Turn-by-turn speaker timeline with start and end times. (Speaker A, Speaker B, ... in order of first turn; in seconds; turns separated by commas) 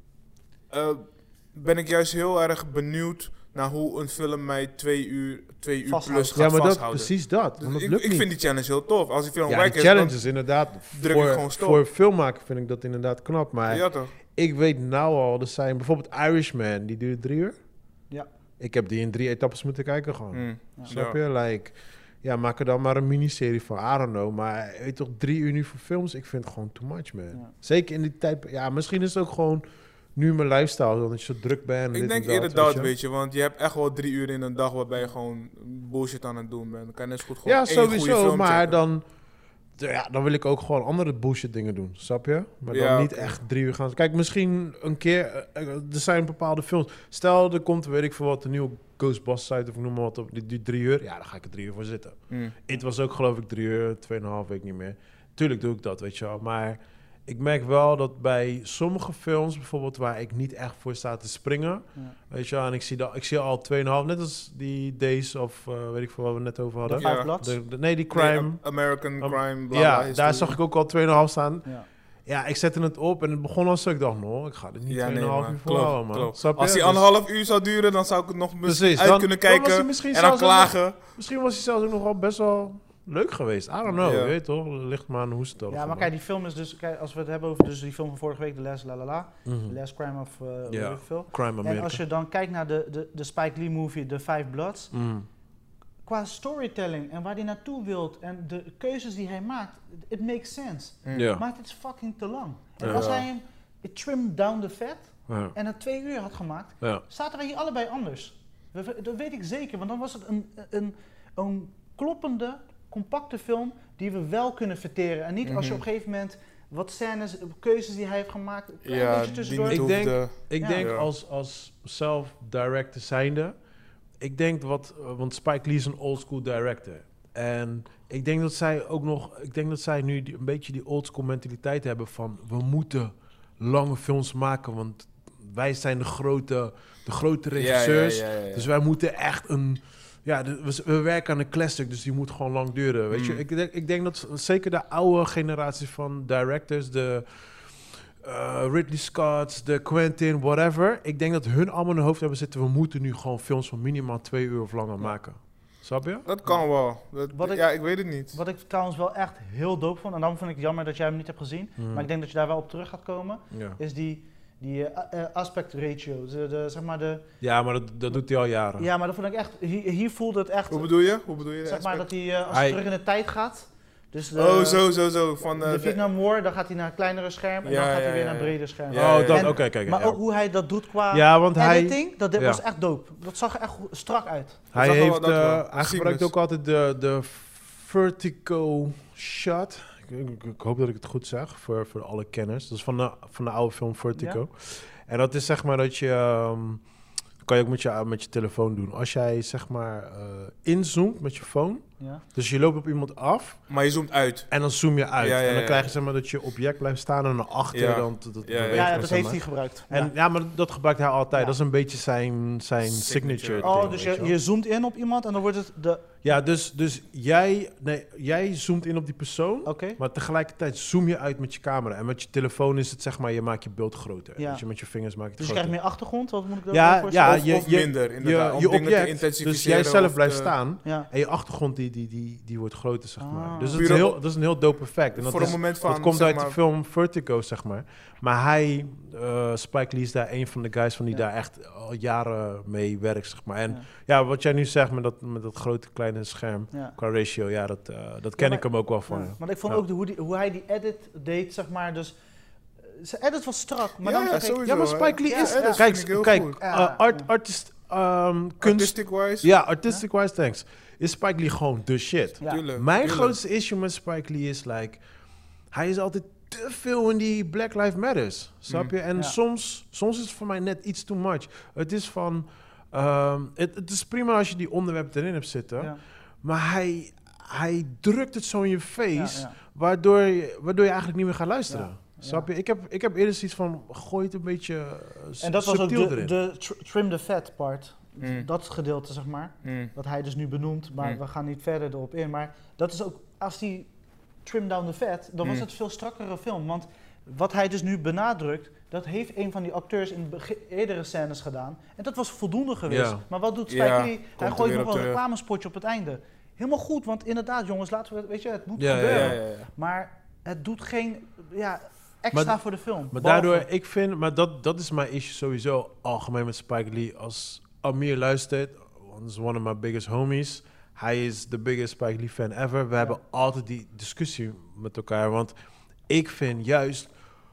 Speaker A: 0.7-10.2, Speaker B: 5.9-6.4, Speaker C: 6.3-8.3, Speaker C: 9.5-17.6, Speaker A: 10.9-11.8, Speaker A: 13.7-14.1, Speaker C: 18.6-29.6, Speaker A: 20.3-21.2, Speaker C: 30.1-32.9, Speaker A: 31.9-38.8, Speaker C: 37.5-39.0, Speaker C: 39.8-68.6, Speaker A: 42.7-43.4, Speaker A: 52.3-52.6, Speaker B: 66.8-67.6, Speaker A: 67.0-67.3, Speaker A: 68.1-70.6, Speaker C: 69.2-71.7, Speaker C: 72.3-77.1, Speaker A: 74.9-81.0, Speaker C: 78.7-86.1, Speaker A: 84.0-84.3, Speaker B: 85.7-94.9, Speaker C: 89.5-89.8, Speaker C: 90.7-92.0, Speaker C: 94.9-95.3, Speaker B: 96.0-120.9, Speaker A: 101.0-101.3, Speaker C: 101.1-101.4, Speaker C: 102.8-103.1, Speaker A: 102.8-103.2, Speaker C: 105.3-105.5, Speaker A: 115.4-115.8, Speaker A: 118.8-121.1, Speaker C: 119.7-123.6, Speaker C: 124.2-156.2, Speaker A: 137.6-138.7, Speaker A: 143.1-143.4, Speaker A: 156.2-158.4, Speaker B: 157.3-157.7, Speaker B: 158.3-167.3, Speaker C: 161.8-162.1, Speaker C: 163.5-163.8, Speaker C: 167.4-168.9, Speaker B: 168.8-170.9, Speaker A: 170.7-172.1, Speaker B: 171.7-174.9, Speaker C: 172.5-172.8, Speaker A: 174.3-176.0, Speaker B: 175.6-184.6, Speaker A: 177.6-179.6, Speaker C: 178.9-180.2, Speaker C: 181.1-182.6, Speaker C: 184.7-196.8, Speaker A: 184.8-186.3, Speaker B: 194.2-194.4, Speaker C: 197.4-203.6, Speaker A: 203.7-204.5, Speaker C: 204.5-214.3, Speaker A: 205.2-205.9, Speaker A: 207.7-209.1, Speaker B: 208.7-210.1, Speaker A: 212.8-213.9, Speaker B: 213.6-216.2, Speaker C: 216.2-225.8, Speaker B: 219.7-220.0, Speaker B: 224.4-224.6, Speaker B: 225.4-227.4, Speaker C: 226.7-249.8, Speaker A: 227.2-230.5, Speaker B: 230.8-231.1, Speaker B: 233.2-234.0, Speaker A: 233.7-234.2, Speaker A: 235.1-236.6, Speaker B: 248.4-252.2, Speaker B: 252.8-254.7, Speaker A: 254.0-256.6, Speaker C: 254.6-265.0, Speaker B: 255.2-255.8, Speaker B: 256.6-257.3, Speaker A: 258.6-259.5, Speaker A: 262.5-263.4, Speaker C: 265.7-286.3, Speaker A: 268.7-268.9, Speaker B: 279.1-279.6, Speaker B: 281.7-282.5, Speaker B: 285.4-293.9, Speaker A: 288.2-288.5, Speaker A: 289.6-289.9, Speaker B: 294.4-313.7, Speaker C: 302.9-303.2, Speaker A: 303.7-305.2, Speaker C: 308.8-309.4, Speaker A: 309.1-309.7, Speaker C: 312.3-312.6, Speaker C: 313.1-325.5, Speaker C: 326.1-327.1